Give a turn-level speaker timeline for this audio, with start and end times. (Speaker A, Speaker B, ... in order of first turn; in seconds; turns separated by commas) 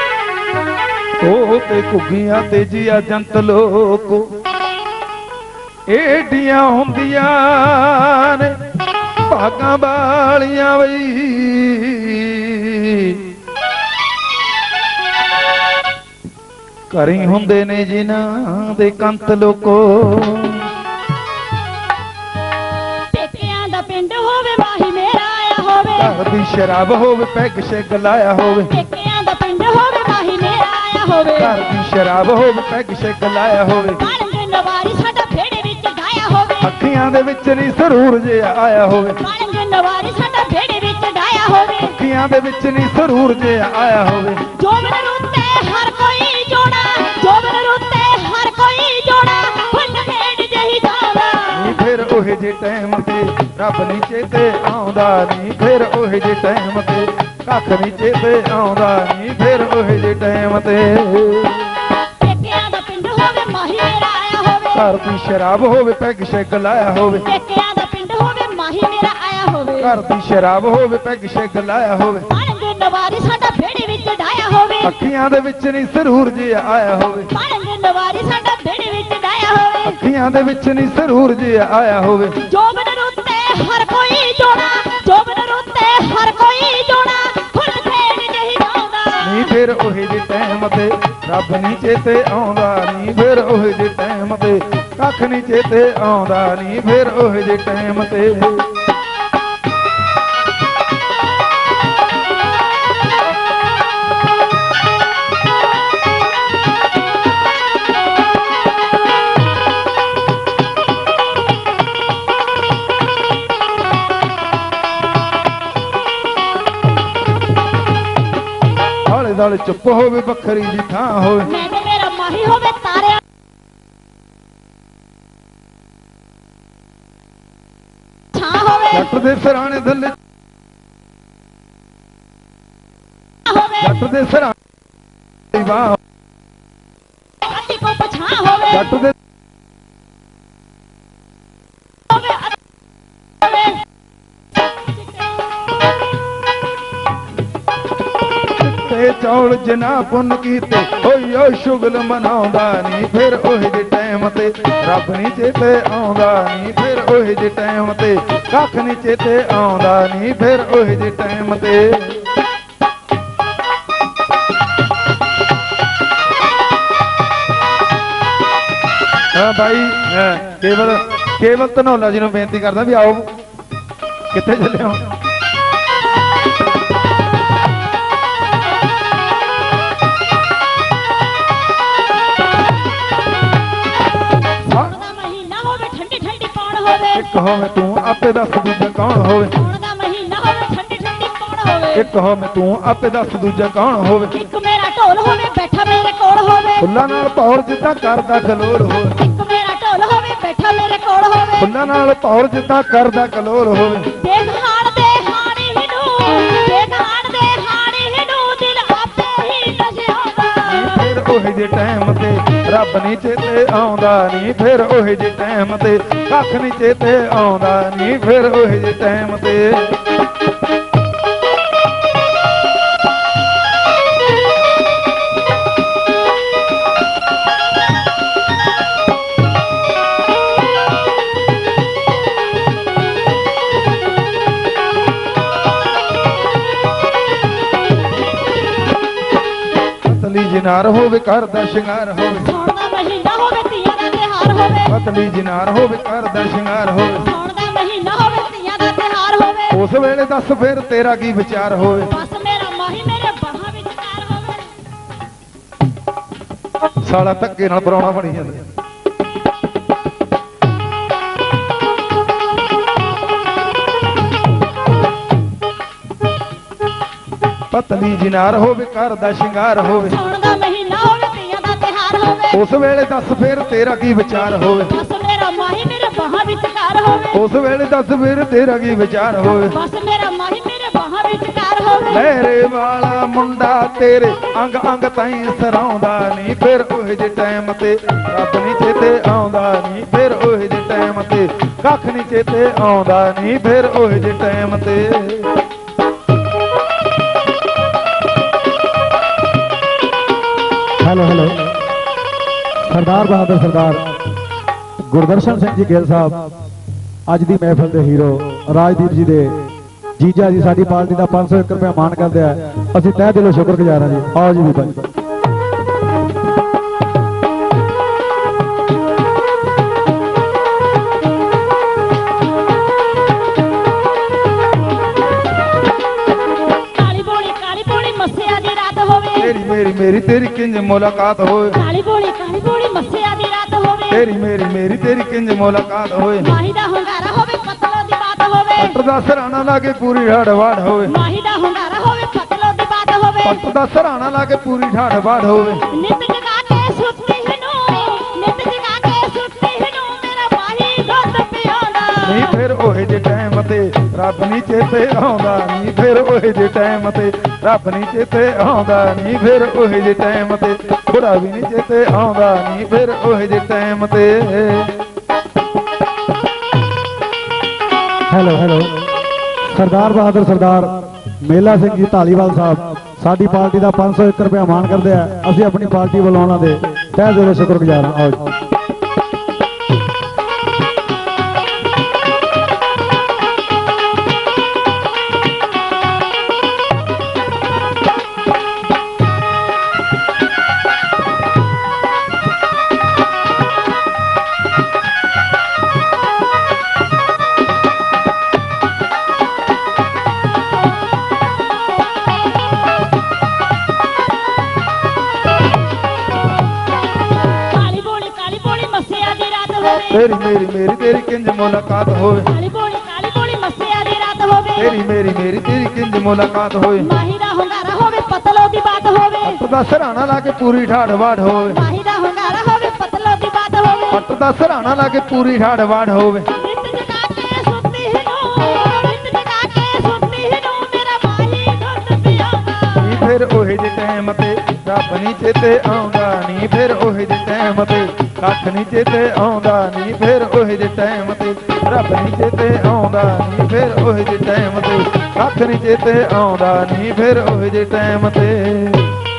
Speaker A: 1.2-4.2, Speaker A: 5.9-8.5, Speaker A: 9.2-13.2, Speaker A: 16.9-20.6, Speaker B: 23.1-26.2, Speaker A: 25.9-28.7, Speaker B: 28.7-31.6, Speaker A: 31.4-34.0, Speaker B: 34.0-36.7, Speaker A: 36.6-39.2, Speaker B: 39.2-42.0, Speaker A: 41.8-44.4, Speaker B: 44.5-51.8, Speaker A: 51.5-61.7, Speaker B: 62.2-64.9, Speaker A: 64.7-67.2, Speaker B: 67.2-70.0, Speaker A: 69.8-72.3, Speaker B: 72.3-74.9, Speaker A: 74.8-77.3, Speaker B: 77.3-80.0, Speaker A: 79.8-82.4, Speaker B: 82.4-89.5, Speaker A: 89.2-98.7, Speaker A: 119.0-121.5, Speaker B: 121.5-123.2, Speaker B: 128.3-129.1, Speaker A: 128.9-130.2, Speaker B: 133.4-133.9, Speaker A: 133.8-134.6, Speaker A: 135.5-135.9, Speaker B: 137.4-138.9, Speaker A: 138.7-139.1, Speaker B: 142.1-142.6, Speaker B: 143.4-143.8, Speaker A: 148.6-162.2, Speaker A: 169.3-173.3, Speaker A: 174.3-175.1, Speaker A: 184.7-184.9, Speaker B: 184.7-187.2, Speaker A: 187.1-189.5, Speaker B: 189.5-192.1, Speaker A: 191.9-194.3, Speaker B: 194.3-196.8, Speaker A: 196.8-199.2, Speaker B: 199.2-201.7, Speaker A: 201.6-204.1, Speaker B: 204.2-211.1, Speaker A: 210.6-219.9, Speaker A: 240.0-242.5, Speaker B: 242.4-244.9, Speaker A: 244.9-247.3, Speaker B: 247.2-249.8, Speaker A: 249.7-252.1, Speaker B: 252.1-254.7, Speaker A: 257.0-258.6, Speaker A: 267.7-270.2, Speaker B: 270.0-272.6, Speaker A: 272.5-274.9, Speaker B: 274.9-277.4, Speaker A: 277.3-279.8, Speaker B: 279.7-282.3, Speaker A: 282.1-295.5, Speaker C: 301.0-301.7, Speaker C: 302.8-304.2, Speaker C: 305.1-306.5, Speaker C: 307.3-315.1, Speaker B: 326.9-329.6, Speaker A: 329.4-331.8, Speaker B: 331.7-334.3, Speaker A: 334.1-336.5, Speaker B: 336.4-339.0, Speaker A: 338.8-341.1, Speaker B: 341.1-343.6, Speaker A: 343.4-345.8, Speaker B: 345.9-352.6, Speaker A: 352.2-364.9, Speaker C: 368.3-369.1, Speaker C: 369.7-378.5, Speaker B: 407.7-410.2, Speaker A: 410.1-412.5, Speaker B: 412.5-414.9, Speaker A: 414.8-417.1, Speaker B: 417.0-419.6, Speaker A: 419.4-421.8, Speaker B: 421.7-424.2, Speaker A: 424.1-426.5, Speaker B: 426.5-433.0, Speaker A: 432.9-449.1